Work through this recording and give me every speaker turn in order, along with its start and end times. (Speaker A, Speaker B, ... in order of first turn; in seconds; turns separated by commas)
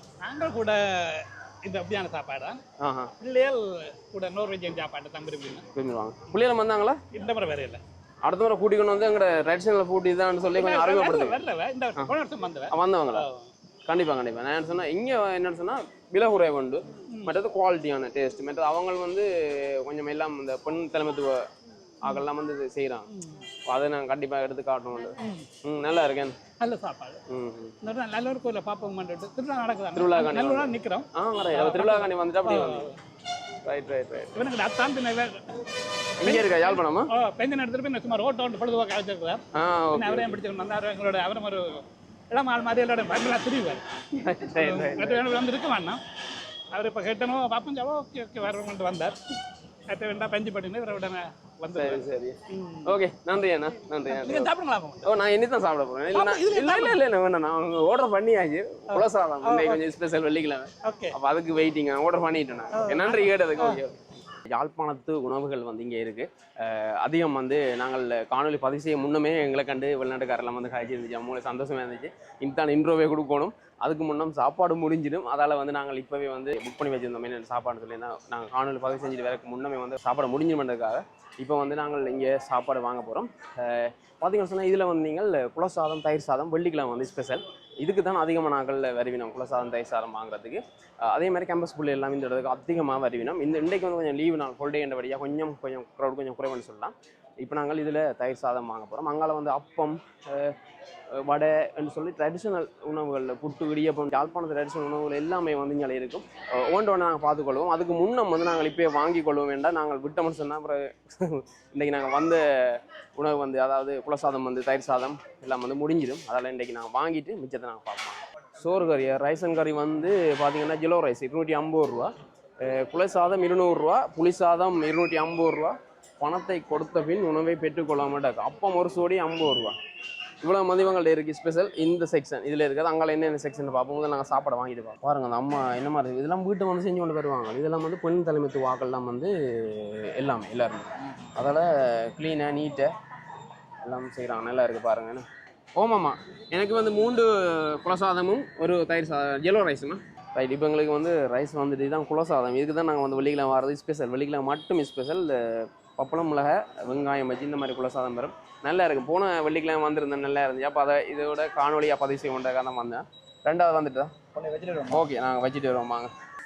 Speaker A: 0.2-2.6, Speaker B: 2.8-3.1, Speaker A: 3.2-5.7, Speaker B: 5.8-7.0, Speaker A: 7.1-7.8, Speaker B: 8.2-11.4, Speaker A: 10.5-13.5, Speaker B: 12.7-13.3, Speaker B: 13.9-21.5, Speaker A: 17.1-17.4, Speaker B: 22.0-23.1, Speaker A: 23.1-23.5, Speaker B: 23.7-26.4, Speaker A: 25.2-25.5, Speaker A: 26.6-27.2, Speaker B: 27.3-27.8, Speaker A: 27.8-33.0, Speaker B: 29.9-32.9, Speaker B: 33.6-34.3, Speaker A: 34.4-35.7, Speaker B: 36.2-37.1, Speaker A: 36.2-43.9, Speaker B: 39.5-40.4, Speaker B: 44.1-45.3, Speaker A: 44.4-46.0, Speaker A: 46.7-53.0, Speaker B: 51.7-54.5, Speaker A: 54.0-55.1, Speaker B: 55.0-100.6, Speaker A: 56.1-57.0, Speaker A: 58.9-59.9, Speaker A: 60.8-61.2, Speaker A: 62.7-63.8, Speaker B: 101.2-129.8, Speaker B: 130.4-142.9, Speaker B: 143.8-145.2, Speaker B: 145.8-166.1